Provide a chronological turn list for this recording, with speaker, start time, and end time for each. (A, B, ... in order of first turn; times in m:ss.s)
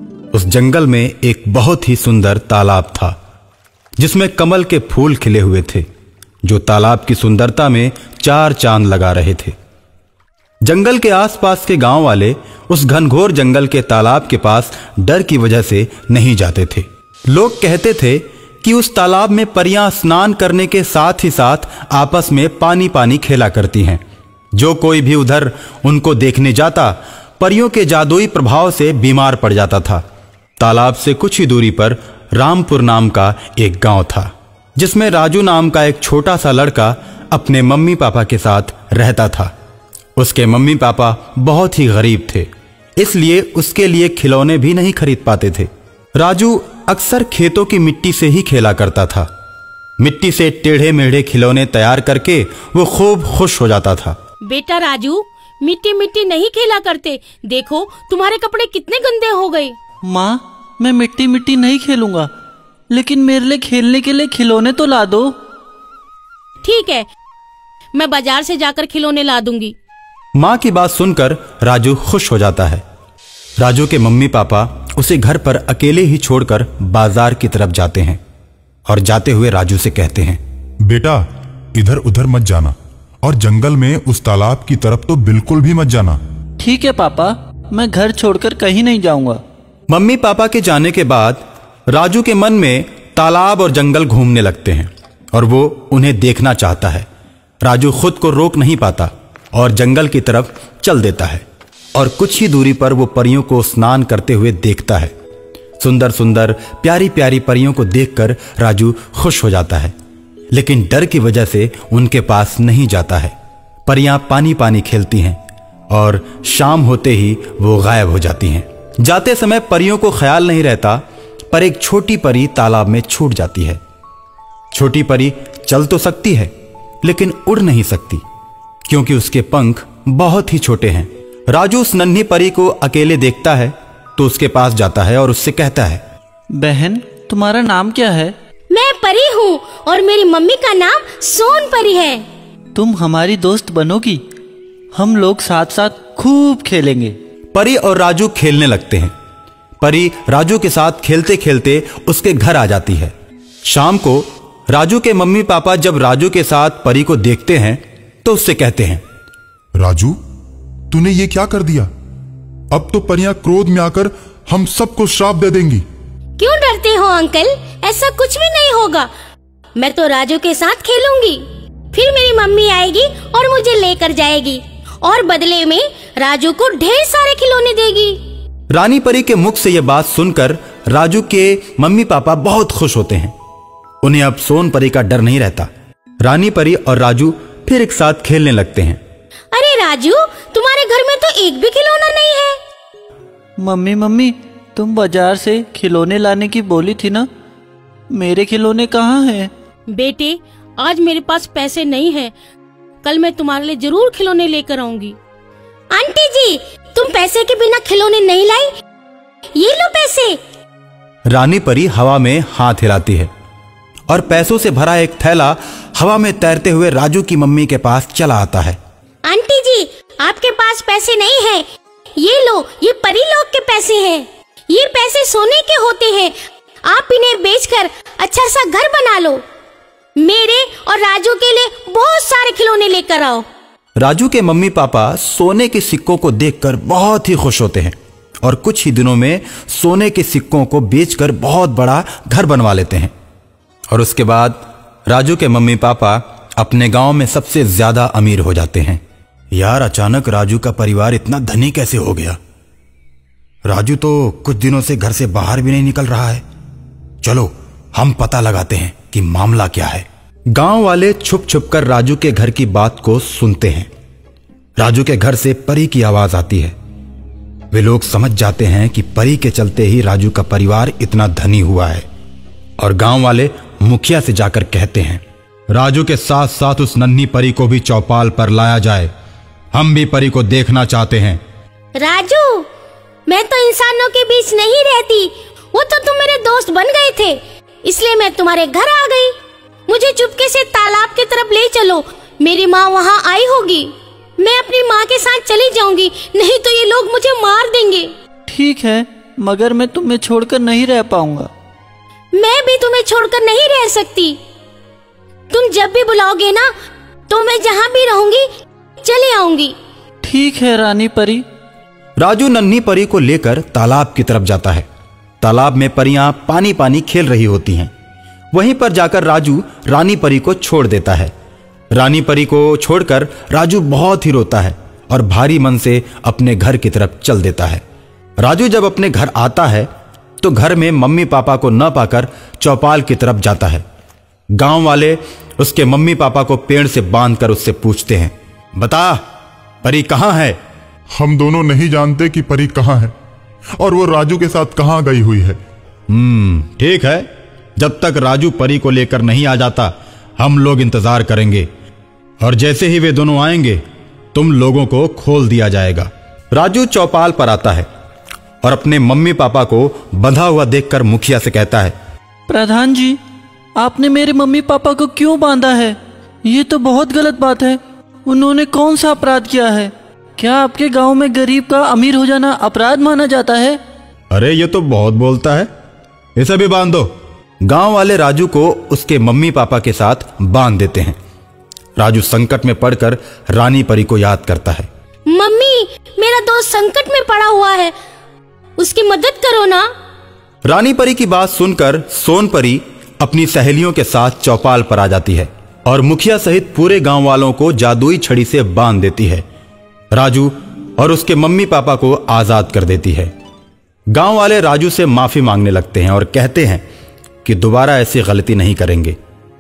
0:00.3-0:03.2 A
0:04.0-0:05.9 A
0:06.4-0:09.5 A
0:10.6-0:24.0 A
0:24.5-0:30.0 A
0:30.6-0:39.5 A
0:40.2-0:49.3 A
0:50.0-0:54.2 A
0:54.4-0:59.8 B
1:00.0-1:02.3 C
1:02.9-1:05.3 C
1:06.6-1:07.1 B
1:07.9-1:09.7 B
1:10.3-1:12.8 A
1:13.6-1:18.2 A
1:18.8-1:20.4 A
1:20.8-1:26.2 D
1:26.6-1:29.4 C
1:29.9-1:37.1 A
1:37.6-1:45.1 A
1:45.8-1:49.9 A
1:50.5-1:53.3 A
1:53.8-1:55.4 A
1:55.9-2:03.8 A
2:04.7-2:06.5 A
2:07.0-2:08.2 A
2:08.9-2:16.0 A
2:16.5-2:18.3 C
2:18.7-2:22.2 B
2:22.8-2:24.2 C
2:24.9-2:27.2 C
2:27.5-2:29.1 A
2:29.8-2:33.1 A
2:33.6-2:39.0 A
2:39.8-2:40.2 D
2:40.9-2:41.9 D
2:42.7-2:45.8 D
2:46.4-2:49.1 B
2:49.8-2:58.2 B
2:58.7-3:03.3 A
3:04.0-3:05.7 A
3:06.2-3:09.0 A
3:09.5-3:12.6 B
3:13.6-3:17.3 C
3:18.1-3:19.5 C
3:19.9-3:22.3 B
3:23.0-3:25.2 B
3:25.9-3:28.7 B
3:29.6-3:30.4 B
3:31.3-3:33.3 A
3:34.1-3:38.8 A
3:39.2-3:41.6 B
3:42.2-3:46.3 B
3:46.8-3:49.4 B
3:50.2-3:53.4 B
3:54.0-4:03.1 A
4:03.9-4:09.0 A
4:09.5-4:12.4 A
4:13.6-4:16.4 A
4:17.2-4:23.9 A
4:24.8-4:26.8 A
4:27.7-4:32.1 A
4:32.8-4:39.1 A
4:39.7-4:41.4 A
4:42.0-4:42.7 B
4:43.3-4:49.4 B
4:49.9-4:58.1 B
4:58.5-5:01.5 C
5:02.3-5:04.4 B
5:05.5-5:06.7 B
5:07.3-5:08.5 B
5:09.0-5:09.8 B
5:10.2-5:11.4 C
5:12.2-5:14.9 A
5:15.4-5:17.9 A
5:18.5-5:21.3 A
5:21.9-5:27.8 A
5:28.4-5:29.9 A
5:30.4-5:33.8 A
5:34.5-5:39.2 A
5:39.8-5:40.6 A
5:41.1-5:43.1 D
5:43.8-5:45.6 D
5:46.1-5:51.7 A
5:52.4-5:53.8 A
5:54.3-5:57.9 A
5:58.6-6:01.9 A
6:02.5-6:03.2 C
6:03.8-6:13.8 C
6:14.3-6:15.7 A
6:16.4-6:21.2 A
6:22.0-6:24.9 A
6:25.3-6:27.9 B
6:28.8-6:29.9 B
6:30.6-6:39.4 A
6:40.1-6:43.3 A
6:44.1-6:46.8 A
6:47.4-6:49.2 A